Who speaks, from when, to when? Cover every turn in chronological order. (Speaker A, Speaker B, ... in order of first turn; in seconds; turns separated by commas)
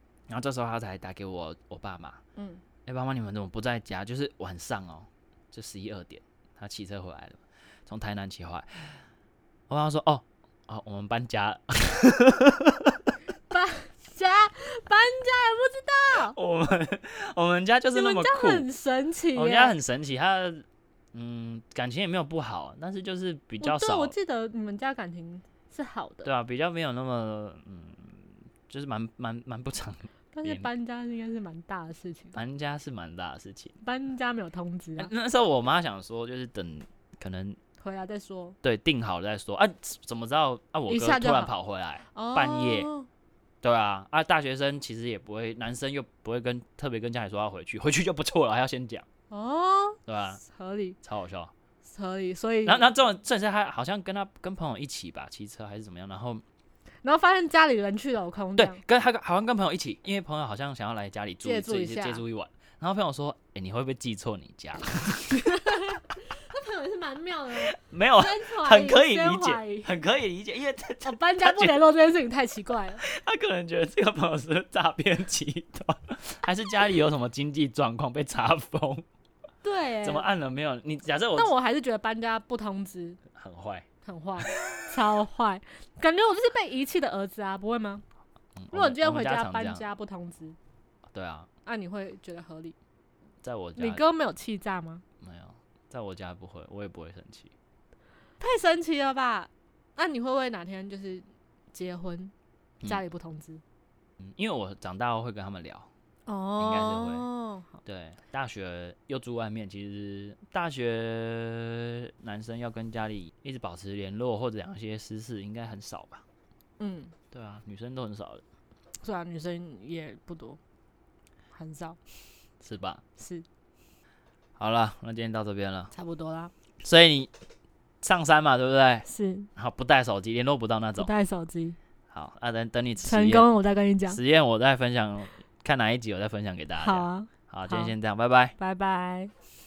Speaker A: 0.3-2.2, Speaker B: 2.4-2.6, Speaker A: 2.9-9.0, Speaker A: 9.7-13.1, Speaker B: 13.5-16.4, Speaker A: 16.3-18.7, Speaker B: 17.9-19.7, Speaker A: 19.3-24.1, Speaker B: 23.6-26.3, Speaker A: 26.2-30.7, Speaker B: 30.3-32.4, Speaker A: 32.3-33.7, Speaker B: 33.8-35.1, Speaker A: 35.0-37.6, Speaker B: 37.8-38.6, Speaker A: 38.6-42.9, Speaker B: 40.9-41.5, Speaker B: 42.1-43.1, Speaker A: 43.6-49.0, Speaker B: 49.3-51.0, Speaker A: 50.1-50.4, Speaker A: 51.0-51.5, Speaker B: 51.8-52.9, Speaker A: 52.6-56.4, Speaker B: 57.0-58.8, Speaker A: 58.6-65.5, Speaker B: 61.4-62.2, Speaker B: 65.3-69.9, Speaker A: 67.6-71.8, Speaker B: 71.0-73.0, Speaker A: 73.0-79.0, Speaker B: 79.6-80.3, Speaker A: 80.0-81.5, Speaker B: 81.3-83.2, Speaker A: 83.3-83.8, Speaker B: 84.0-88.0, Speaker A: 84.4-84.9, Speaker A: 88.6-89.8, Speaker B: 88.7-90.6, Speaker A: 91.1-91.5, Speaker B: 91.6-92.8, Speaker A: 93.4-94.0, Speaker B: 93.8-95.0, Speaker A: 95.2-97.5, Speaker B: 98.4-102.3, Speaker B: 102.8-103.6, Speaker A: 104.2-105.9, Speaker B: 106.2-107.8, Speaker A: 106.6-107.3, Speaker A: 107.8-116.2, Speaker B: 116.8-117.1, Speaker A: 117.3-118.4, Speaker B: 119.0-120.6, Speaker B: 121.5-122.0, Speaker A: 122.6-123.0, Speaker B: 123.2-123.5, Speaker A: 124.6-125.9, Speaker B: 125.9-126.5, Speaker A: 126.8-127.3, Speaker A: 128.0-131.1, Speaker B: 129.1-129.5, Speaker B: 131.0-131.8, Speaker A: 132.1-133.5, Speaker B: 133.0-134.2, Speaker A: 134.1-138.6, Speaker B: 136.8-137.9, Speaker B: 138.6-139.3